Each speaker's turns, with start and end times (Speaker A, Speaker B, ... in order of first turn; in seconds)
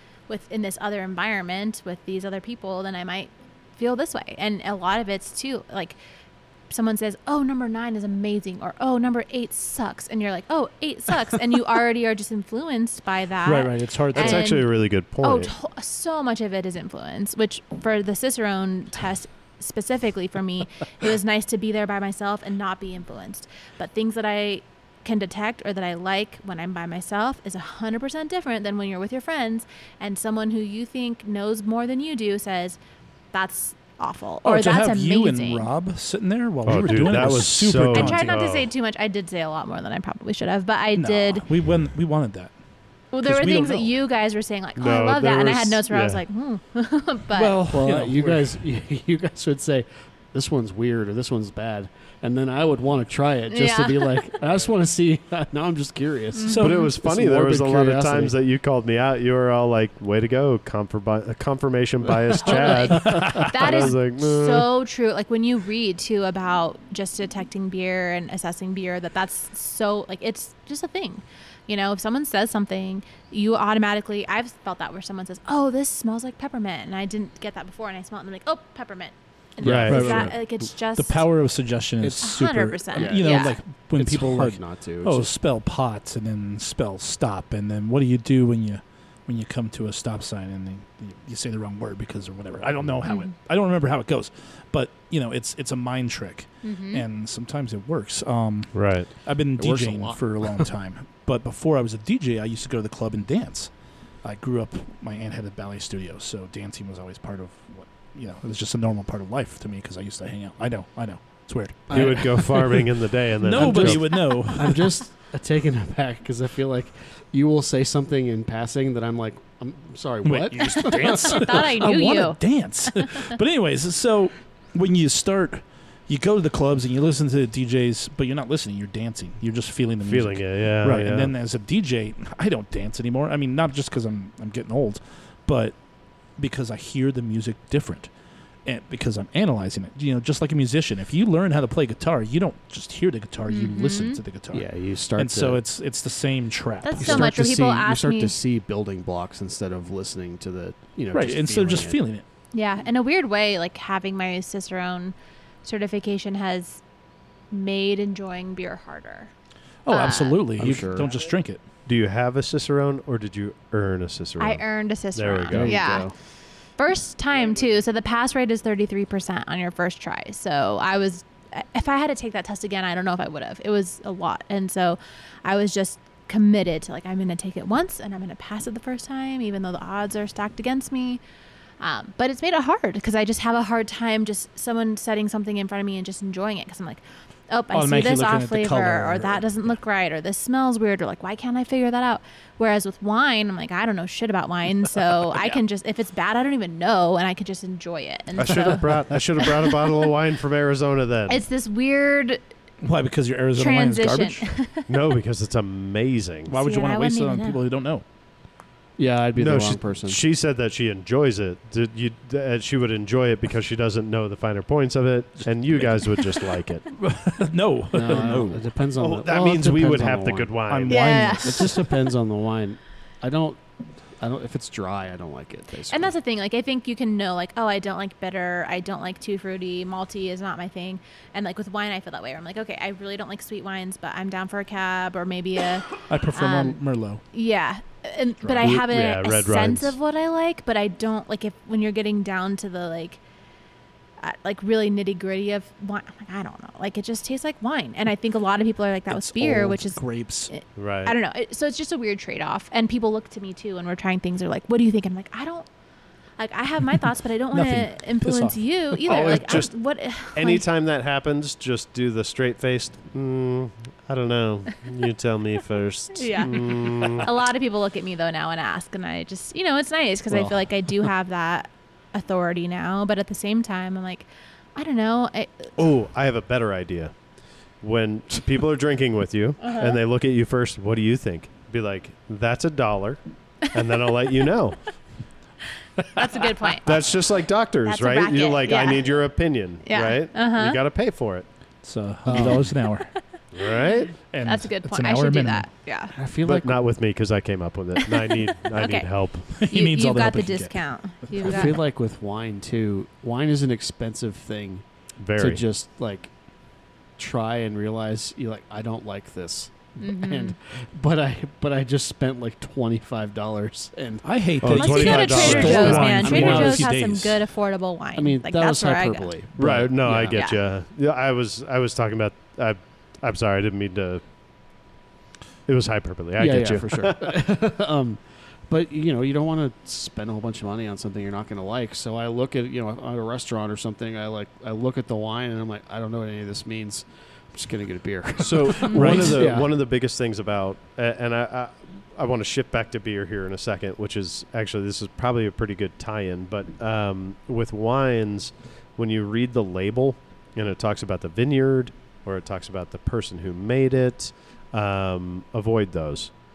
Speaker A: 0.3-6.0, 6.7-32.8, 33.3-35.7, 37.9-41.5, 43.1-47.6, 53.5-54.2, 56.3-56.9, 62.4-81.2, 82.2-83.6, 93.0-93.3, 96.6-97.0, 121.0-123.3, 143.5-144.2, 146.8-148.3, 152.5-156.8, 157.5-159.3, 159.9-160.4, 164.4-166.1, 166.8-181.2, 181.8-200.1, 201.3-202.4, 203.6-204.9, 206.6-207.6, 220.9-221.8, 225.9-236.8, 237.3-243.2, 244.2-255.7, 256.4-260.6, 266.1-275.7, 279.6-279.9, 286.1-287.0, 287.8-289.1, 289.8-290.8, 293.6-296.1, 298.2-301.8, 310.0-310.6, 314.7-319.3, 320.3-320.6
Speaker B: 13.4-14.6, 34.4-38.3, 41.0-42.5, 43.2-43.9, 47.3-48.6, 56.4-56.9, 63.0-63.7, 79.8-103.7, 104.2-115.0, 120.2-135.8, 136.3-138.1, 138.6-147.4, 151.1-152.2, 159.8-161.6, 187.7-189.8, 202.8-204.5, 206.5-208.0, 215.7-218.6, 220.7-221.8, 236.1-237.2, 249.1-250.5, 257.5-259.3, 291.8-293.1, 294.3-295.7, 299.5-301.7, 314.2-317.4, 338.9-339.4
Speaker C: 14.1-15.5, 36.6-38.7, 44.8-46.2, 56.6-64.7, 79.6-80.3, 98.7-99.1, 111.9-114.2, 130.0-131.3, 161.8-164.6, 165.1-165.8, 198.4-201.4, 204.9-206.6, 209.3-216.9, 219.0-221.1, 238.6-239.9, 250.8-251.2, 259.1-267.3, 275.8-277.1, 277.8-284.9, 286.8-291.4, 293.5-294.1, 296.4-299.5, 305.2-305.6, 314.6-316.3, 319.6-324.2, 325.7-327.3, 338.4-356.4
Speaker D: 47.7-58.3, 62.5-63.2, 79.6-80.3, 82.9-85.3, 99.6-100.7, 111.9-112.8, 113.5-121.5, 144.5-145.6, 147.0-152.0, 160.6-161.1, 165.5-166.1, 209.0-210.2, 217.9-220.5, 221.4-223.6, 224.2-226.1, 270.3-270.7, 292.2-292.7, 296.1-296.8, 301.4-304.8, 305.4-306.3, 307.2-314.3, 315.4-316.9, 318.1-320.4, 326.4-339.7